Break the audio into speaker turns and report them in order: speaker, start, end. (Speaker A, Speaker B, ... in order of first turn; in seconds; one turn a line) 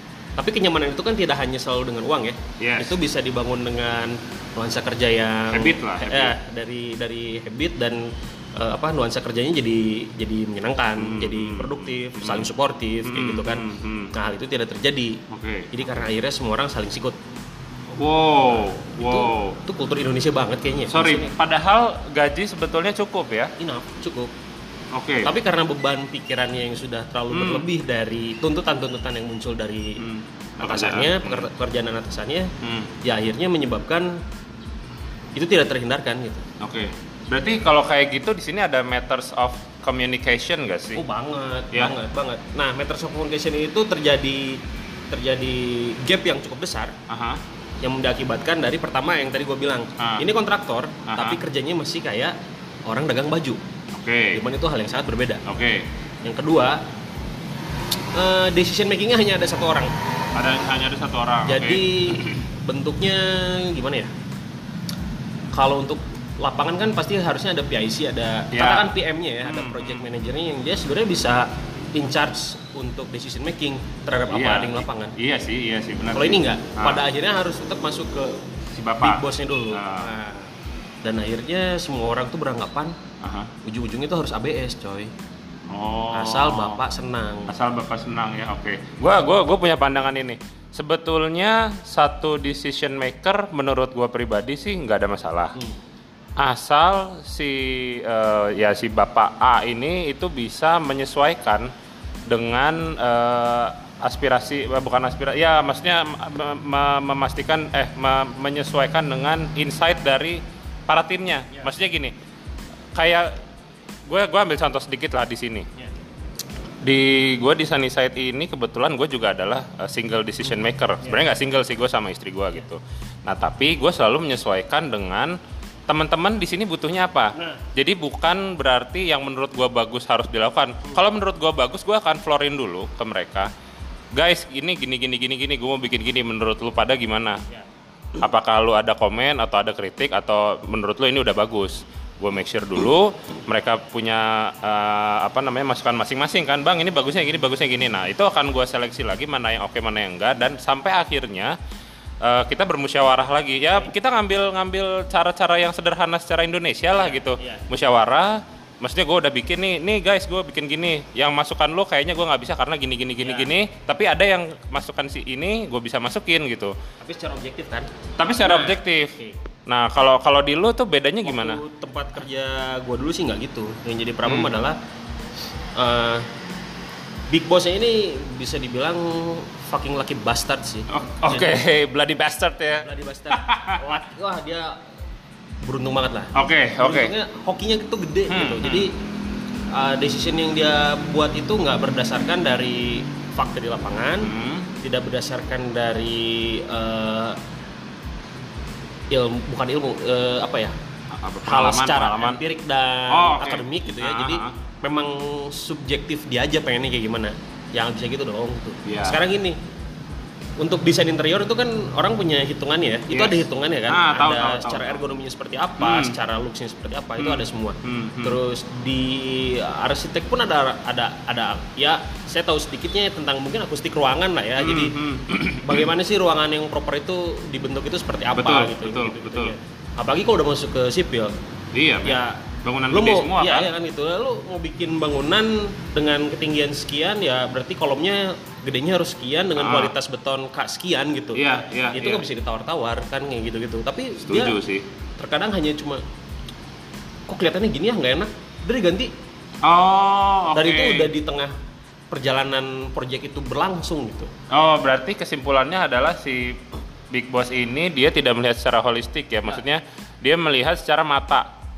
Speaker A: 0.4-17.2
Speaker B: 2.6-3.0
Speaker B: 5.5-6.4
Speaker B: 11.0-12.5
Speaker B: 13.0-14.1
Speaker B: 15.3-15.7
Speaker B: 18.0-19.6
Speaker A: 18.6-21.3
Speaker B: 20.9-23.5
Speaker A: 23.6-24.3
Speaker B: 24.9-25.3
Speaker A: 25.2-30.1
Speaker B: 27.3-27.7
Speaker B: 30.0-31.5
Speaker A: 30.6-32.5
Speaker B: 32.6-32.9
Speaker A: 33.0-34.2
Speaker A: 35.4-36.5
Speaker B: 36.6-41.0
Speaker A: 41.0-47.0
Speaker B: 47.1-47.4
Speaker A: 47.8-53.6
Speaker B: 50.0-50.3
Speaker B: 51.1-51.4
Speaker B: 53.9-54.4
Speaker A: 54.3-55.4
Speaker B: 55.5-55.9
Speaker A: 56.2-56.8
Speaker A: 58.1-59.9
Speaker B: 60.3-62.4
Speaker A: 61.5-64.1
Speaker A: 65.5-75.2
Speaker B: 68.5-68.9
Speaker B: 69.4-70.1
Speaker B: 74.3-77.0
Speaker A: 76.2-78.4
Speaker B: 78.8-80.1
Speaker A: 79.0-80.5
Speaker A: 81.0-83.0
Speaker B: 83.2-83.5
Speaker A: 83.6-85.1
Speaker B: 85.7-86.8
Speaker A: 86.1-87.5
Speaker B: 87.5-95.6
Speaker B: 96.4-101.7
Speaker B: 102.3-112.1
Speaker B: 113.0-113.4
Speaker B: 114.1-115.7
Speaker B: 116.8-125.4
Speaker B: 125.9-133.5
Speaker A: 127.3-127.6
Speaker B: 134.1-137.4
Speaker B: 138.2-151.5
Speaker B: 152.2-166.8
Speaker A: 156.9-157.6
Speaker A: 163.2-163.5
Speaker A: 167.0-167.9
Speaker B: 168.2-171.6
Speaker A: 168.4-169.4
Speaker A: 171.2-174.8
Speaker B: 174.2-174.5
Speaker A: 175.8-176.3
Speaker A: 177.3-181.6
Speaker B: 180.9-183.8
Speaker A: 182.7-184.8
Speaker A: 185.6-188.9
Speaker B: 186.3-187.1
Speaker B: 188.3-188.9
Speaker A: 189.7-197.4
Speaker B: 194.2-194.7
Speaker A: 199.1-200.8
Speaker B: 201.1-202.4
Speaker A: 201.4-209.6
Speaker B: 203.1-204.6
Speaker B: 208.8-209.2
Speaker A: 210.6-225.0
Speaker B: 213.1-215.0
Speaker B: 215.8-216.2
Speaker B: 217.2-218.4
Speaker B: 224.6-225.9
Speaker A: 225.6-231.3
Speaker B: 228.3-229.5
Speaker B: 231.7-233.7
Speaker A: 232.0-244.6
Speaker B: 239.6-239.9
Speaker B: 241.3-242.2
Speaker B: 244.3-244.9
Speaker A: 245.2-246.0
Speaker A: 247.3-249.1
Speaker B: 249.6-251.1
Speaker A: 250.5-251.5
Speaker A: 252.1-254.3
Speaker B: 254.5-261.5